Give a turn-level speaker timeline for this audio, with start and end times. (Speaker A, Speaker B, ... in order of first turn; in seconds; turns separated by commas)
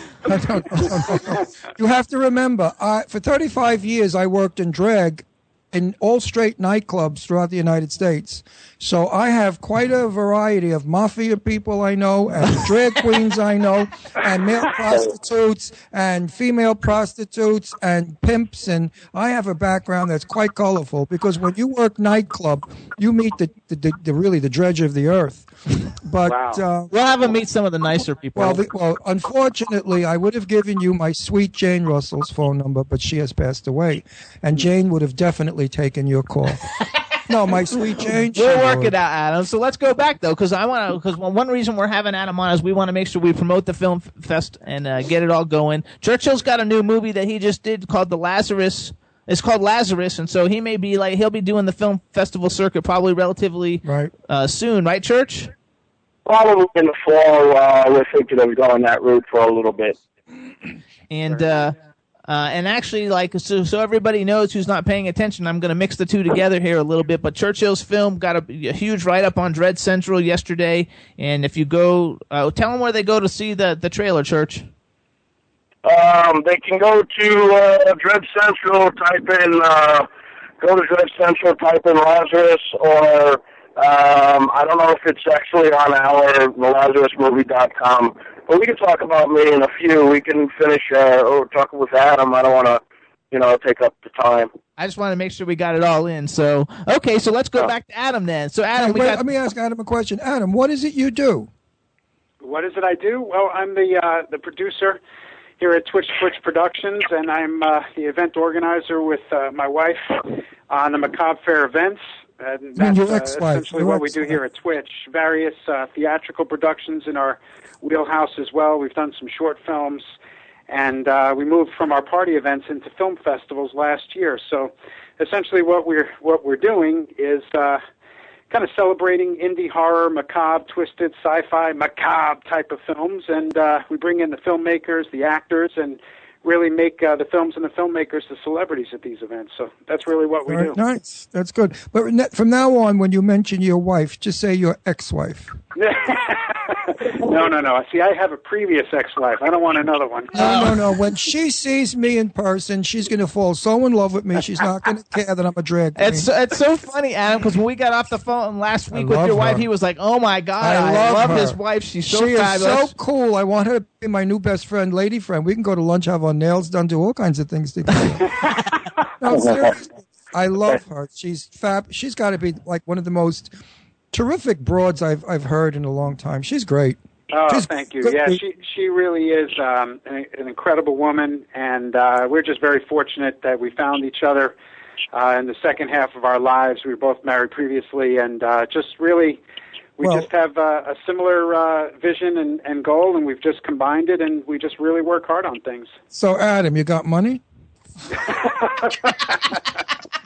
Speaker A: 0.2-26.9, Speaker B: 26.2-26.6, Speaker C: 26.9-28.6, Speaker A: 28.3-36.6, Speaker A: 37.2-38.9, Speaker C: 38.3-55.5, Speaker A: 53.8-54.1, Speaker D: 56.2-60.0, Speaker C: 61.1-61.7, Speaker C: 62.3-74.7, Speaker D: 75.8-80.1, Speaker D: 80.6-94.5, Speaker C: 94.8-99.2, Speaker A: 98.8-101.5, Speaker B: 102.4-105.0, Speaker B: 105.6-120.0, Speaker A: 112.8-114.4, Speaker B: 120.7-127.8, Speaker B: 128.5-140.8, Speaker A: 140.5-145.6, Speaker B: 145.7-150.7, Speaker A: 150.3-156.3, Speaker C: 150.3-150.8, Speaker C: 155.9-162.9, Speaker A: 158.9-159.7, Speaker A: 160.6-168.3, Speaker A: 169.2-173.5, Speaker D: 169.3-169.7, Speaker A: 174.1-177.0, Speaker B: 177.3-184.6, Speaker A: 177.5-178.4, Speaker B: 185.1-189.4, Speaker B: 190.0-195.9, Speaker A: 196.1-197.4, Speaker B: 198.2-199.6